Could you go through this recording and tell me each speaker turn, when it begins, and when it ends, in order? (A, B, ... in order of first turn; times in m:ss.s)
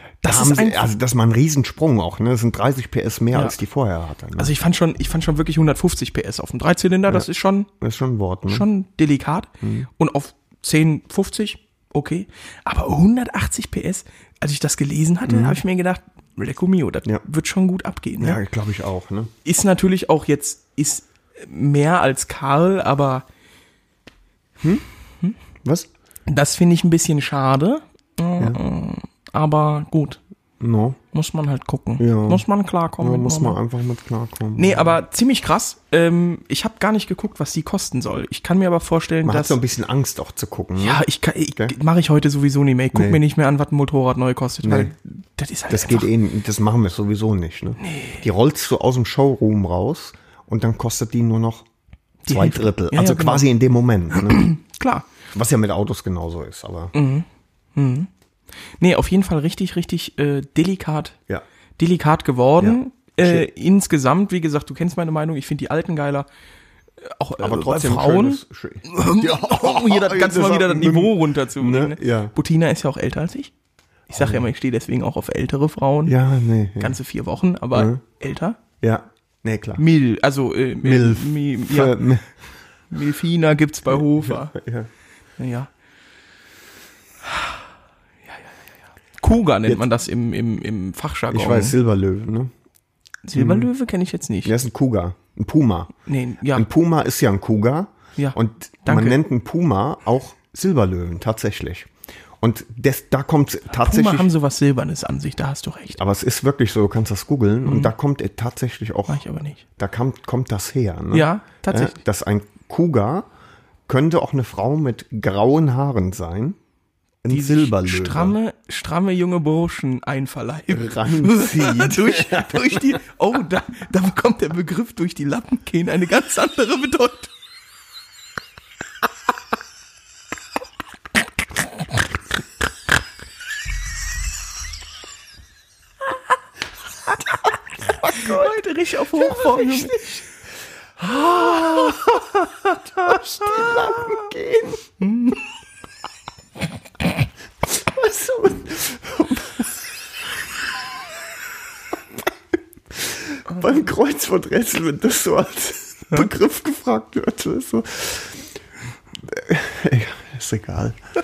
0:00.2-0:04.5 A
0:00.2-0:00.9 B
0:04.4-0:07.7 B
0:07.8-0:08.6 A
0:08.5-0:18.4 B
0:09.6-0:09.9 A
0:15.2-0:15.6 A
0:18.2-0:19.3 A
0:19.4-0:23.2 B
0:26.3-0:30.2 B
0:30.6-0:31.0 A
0:31.1-0:33.6 B
0:32.0-0:32.4 A
0:33.0-0:35.0 A
0:34.6-0:39.6 B
0:39.2-0:41.0 A
0:40.8-0:46.1 B
0:42.9-0:43.2 A
0:44.6-0:44.9 A
0:45.7-0:51.6 A
0:47.8-0:48.2 B
0:52.2-0:53.4 B
0:52.3-0:54.5 A
0:54.1-0:55.1 B
0:55.3-0:56.9 A
0:56.9-0:58.1 B
0:58.8-1:01.2 B
1:01.8-1:06.3 B
1:02.6-1:03.5 A
1:07.0-1:13.5 B
1:07.4-1:12.3 A
1:14.1-1:16.2 B
1:14.1-1:14.5 A
1:16.0-1:17.0 A
1:16.8-1:18.6 B
1:17.7-1:18.0 A
1:18.8-1:19.8 A
1:19.8-1:22.1 B
1:20.8-1:22.3 A
1:22.9-1:24.6 B
1:24.2-1:24.9 A
1:25.4-1:25.7 B
1:27.3-1:27.6 B
1:29.2-1:31.8 B
1:31.3-1:32.5 A
1:33.2-1:34.5 B
1:33.3-1:33.7 A
1:34.4-1:35.9 A
1:36.0-1:36.6 B
1:36.5-1:41.9 A
1:38.2-1:39.2 B
1:42.4-1:44.3 A
1:43.7-1:46.0 B
1:46.0-1:49.2 A
1:47.6-1:47.9 B
1:49.1-1:49.6 B
1:49.8-1:53.3 A
1:51.1-1:52.0 B
1:53.9-1:56.6 A
1:57.2-1:58.4 A
1:57.3-2:07.3 B
2:00.7-2:03.0 A
2:18.0-2:20.2 B
2:18.0-2:18.5 A
2:19.2-2:20.2 A
2:21.0-2:24.8 A
2:21.6-2:24.2 B
2:25.0-2:25.4 B
2:27.7-2:29.7 A
2:32.9-2:38.5 A
2:39.2-2:41.0 A